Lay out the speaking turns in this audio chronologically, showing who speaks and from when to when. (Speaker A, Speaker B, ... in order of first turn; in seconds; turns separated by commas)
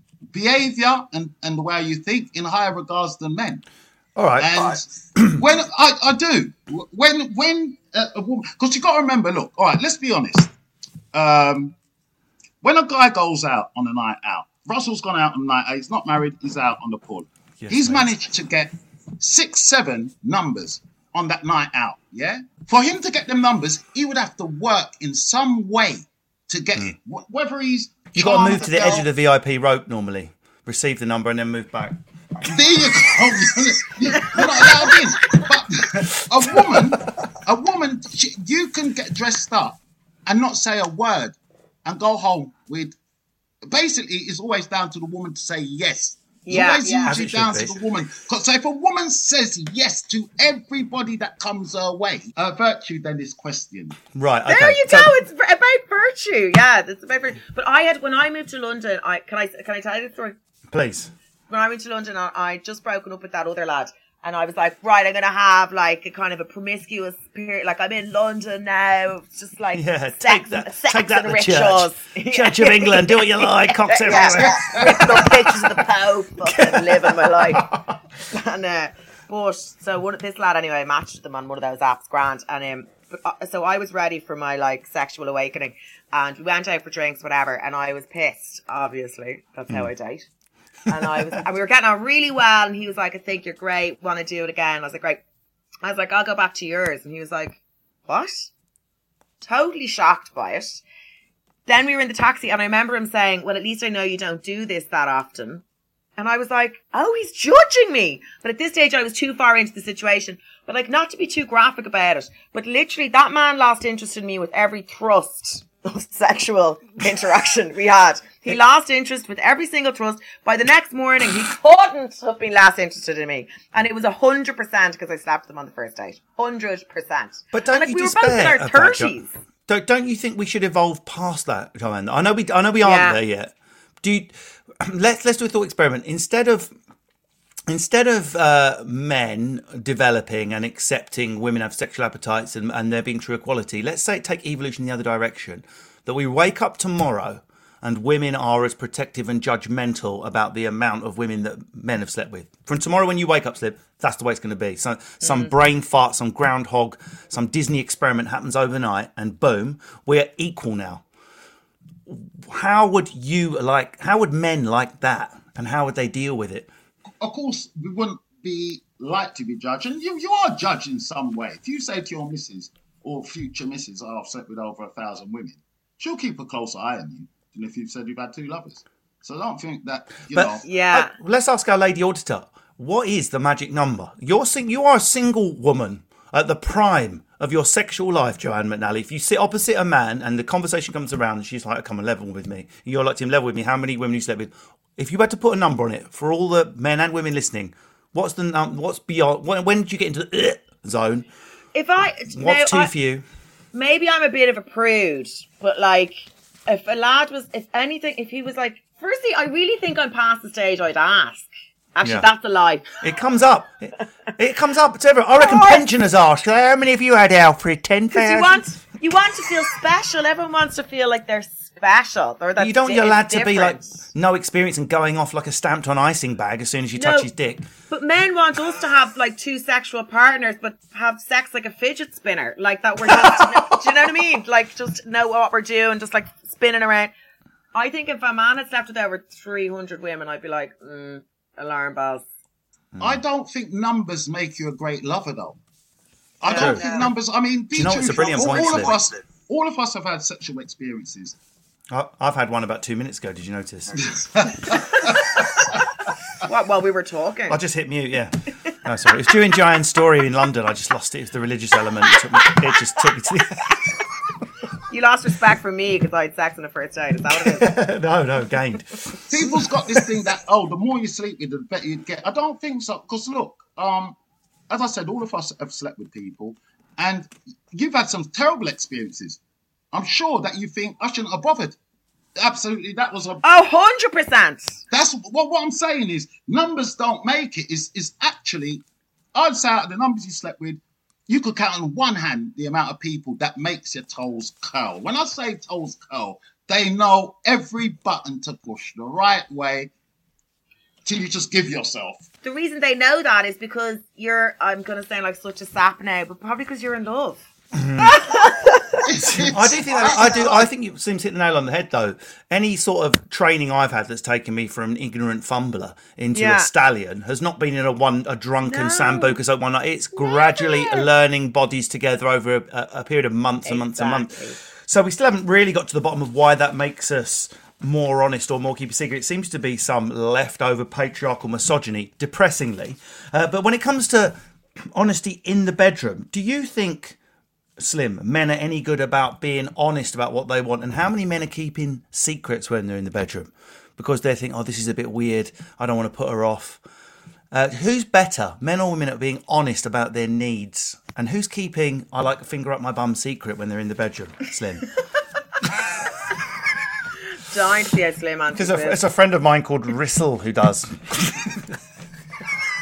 Speaker A: 0.3-3.6, Speaker B: 4.2-5.4, Speaker A: 4.4-10.5, Speaker A: 11.1-11.8, Speaker A: 12.6-29.1, Speaker B: 17.6-18.1, Speaker B: 28.1-32.5, Speaker A: 32.5-43.0, Speaker B: 36.5-36.9, Speaker A: 43.7-54.0, Speaker C: 46.5-47.1, Speaker B: 47.1-47.8, Speaker B: 54.1-55.1, Speaker C: 54.5-60.4, Speaker B: 60.7-61.1, Speaker C: 61.5-77.7, Speaker B: 69.7-75.3, Speaker A: 74.1-75.1, Speaker B: 76.5-77.8, Speaker C: 78.3-90.3, Speaker C: 90.9-95.2, Speaker C: 95.8-98.5, Speaker C: 99.4-100.8, Speaker C: 101.7-105.6, Speaker C: 106.2-129.3, Speaker B: 127.5-129.1, Speaker B: 129.7-136.7, Speaker C: 132.8-133.2, Speaker B: 137.7-161.1, Speaker C: 155.2-155.5, Speaker B: 162.1-166.7, Speaker A: 167.2-180.7, Speaker B: 180.3-201.3, Speaker C: 180.7-181.1, Speaker C: 201.8-202.9, Speaker B: 202.3-203.2, Speaker C: 203.7-212.9, Speaker B: 213.0-218.6, Speaker C: 215.4-215.8, Speaker C: 218.1-223.9, Speaker B: 222.6-227.7, Speaker C: 227.0-227.3, Speaker C: 227.9-237.1, Speaker B: 233.2-233.8, Speaker C: 237.7-242.3, Speaker B: 242.9-243.2, Speaker A: 243.0-245.6, Speaker A: 246.4-251.4, Speaker C: 246.4-247.1, Speaker B: 246.5-247.1, Speaker B: 247.8-248.9, Speaker B: 251.9-254.2, Speaker A: 254.0-254.8, Speaker C: 256.4-257.6, Speaker B: 257.5-263.8, Speaker C: 264.9-267.8, Speaker B: 267.5-269.7, Speaker A: 269.3-274.2, Speaker A: 274.7-279.4, Speaker A: 279.9-281.8, Speaker A: 282.4-283.4, Speaker C: 283.4-284.8, Speaker A: 284.9-299.9, Speaker A: 301.1-302.2, Speaker C: 302.4-307.4, Speaker B: 307.7-308.2, Speaker C: 308.0-309.0, Speaker A: 309.0-310.6, Speaker B: 309.3-334.4, Speaker C: 316.3-316.7, Speaker C: 318.6-319.4, Speaker C: 320.2-321.1, Speaker C: 323.6-324.6, Speaker B: 334.9-337.2, Speaker B: 337.8-346.8, Speaker B: 347.5-354.9, Speaker C: 357.5-359.0, Speaker B: 358.6-361.7